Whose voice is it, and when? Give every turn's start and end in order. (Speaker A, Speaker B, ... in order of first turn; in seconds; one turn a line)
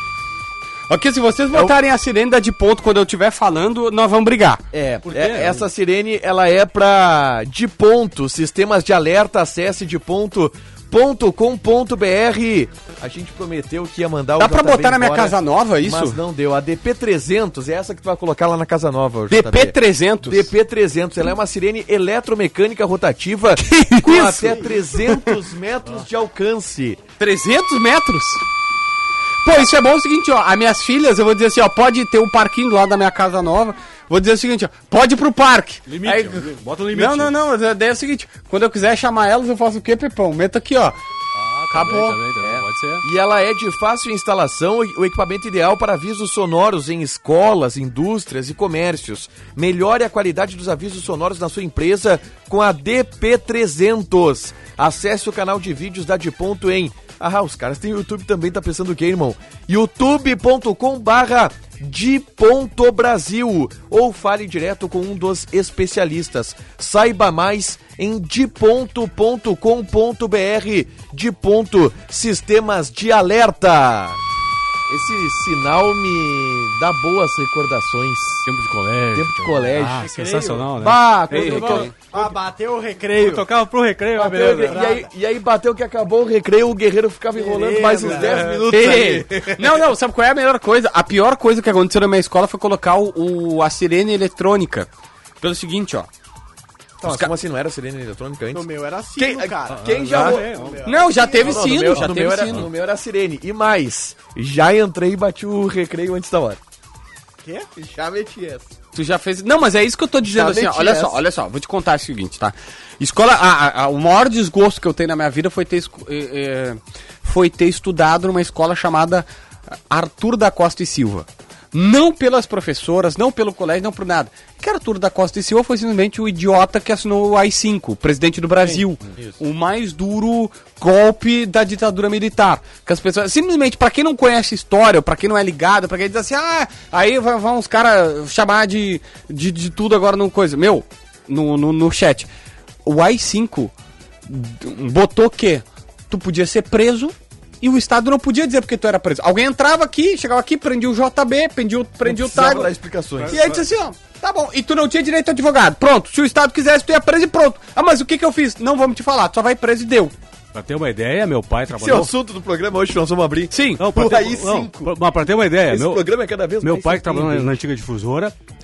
Speaker A: 0.9-4.6
Speaker B: 4.7-27.0
Speaker C: 5.0-5.7
Speaker A: 14.4-16.2
Speaker A: 19.3-20.5
Speaker A: 23.8-24.5
Speaker D: 24.4-24.9
Speaker A: 27.2-28.4
Speaker A: 29.4-41.0
Speaker C: 35.9-37.3
Speaker C: 41.4-43.0
Speaker A: 41.7-42.2
Speaker B: 42.4-74.2
Speaker B: 74.9-78.5
Speaker C: 78.5-82.3
Speaker B: 79.1-80.1
Speaker D: 80.0-80.7
Speaker B: 80.7-82.0
Speaker A: 81.3-81.9
Speaker D: 82.0-83.4
Speaker C: 83.2-84.8
Speaker B: 84.2-89.7
Speaker D: 84.6-85.1
Speaker D: 87.3-88.4
Speaker C: 88.0-89.2
Speaker A: 88.7-94.9
Speaker A: 95.4-96.1
Speaker B: 97.0-100.7
Speaker A: 97.0-97.3
Speaker D: 98.5-101.7
Speaker C: 99.8-100.8
Speaker A: 100.8-102.7
Speaker B: 101.2-106.6
Speaker C: 102.0-102.7
Speaker B: 107.7-108.7
Speaker A: 108.9-142.3
Speaker D: 110.3-111.1
Speaker B: 110.3-111.1
Speaker B: 128.7-129.3
Speaker A: 142.8-143.7
Speaker A: 144.3-152.7
Speaker B: 152.0-153.4
Speaker C: 153.2-153.6
Speaker A: 153.3-160.1
Speaker C: 160.5-162.1
Speaker B: 161.7-164.9
Speaker A: 163.5-163.8
Speaker C: 163.8-166.1
Speaker B: 165.7-167.5
Speaker C: 166.6-168.3